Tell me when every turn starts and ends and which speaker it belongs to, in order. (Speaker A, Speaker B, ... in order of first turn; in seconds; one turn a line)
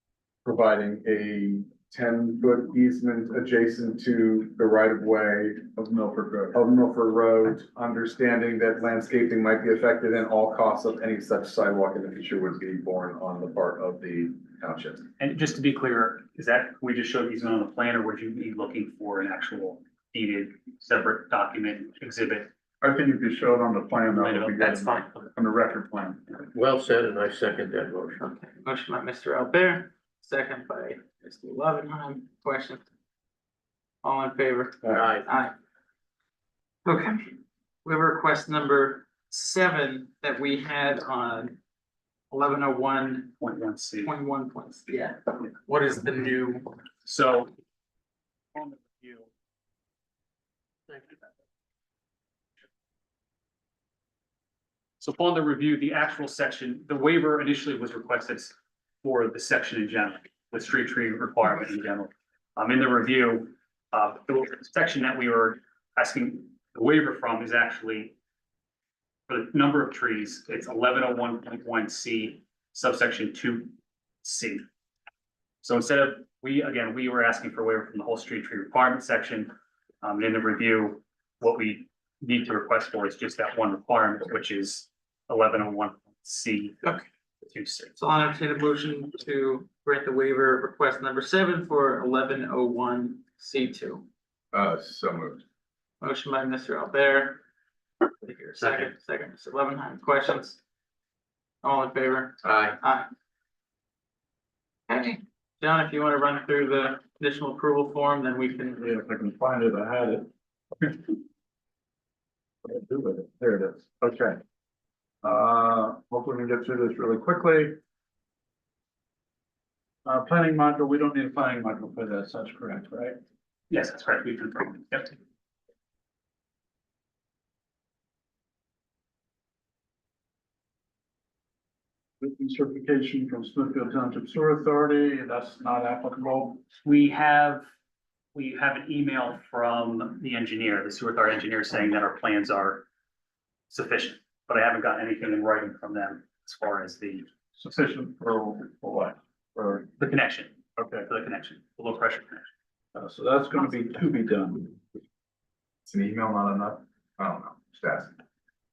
Speaker A: 0.5-5.8
Speaker B: 5.8-6.5
Speaker A: 6.5-15.1
Speaker C: 15.2-22.5
Speaker B: 22.8-26.2
Speaker C: 24.1-25.3
Speaker D: 24.6-25.1
Speaker E: 26.5-28.2
Speaker D: 28.2-32.8
Speaker D: 34.0-35.5
Speaker E: 34.9-35.3
Speaker D: 36.9-41.6
Speaker D: 42.3-43.4
Speaker C: 43.4-44.1
Speaker D: 44.0-46.7
Speaker C: 47.0-47.5
Speaker C: 48.5-49.3
Speaker C: 55.0-68.2
Speaker C: 69.3-74.7
Speaker C: 75.6-87.9
Speaker D: 88.0-94.1
Speaker A: 94.5-95.4
Speaker D: 96.0-97.4
Speaker D: 98.2-100.6
Speaker E: 98.6-98.9
Speaker D: 101.6-103.1
Speaker D: 104.9-108.9
Speaker B: 108.8-110.3
Speaker B: 112.7-114.4
Speaker B: 115.2-117.8
Speaker B: 120.0-123.2
Speaker C: 123.7-125.2
Speaker B: 132.2-136.7
Speaker C: 136.8-137.7
Speaker C: 138.3-142.8
Speaker C: 143.7-147.3
Speaker B: 147.6-149.9
Speaker C: 150.0-152.5
Speaker B: 150.8-151.1
Speaker B: 152.9-154.8
Speaker A: 155.9-158.1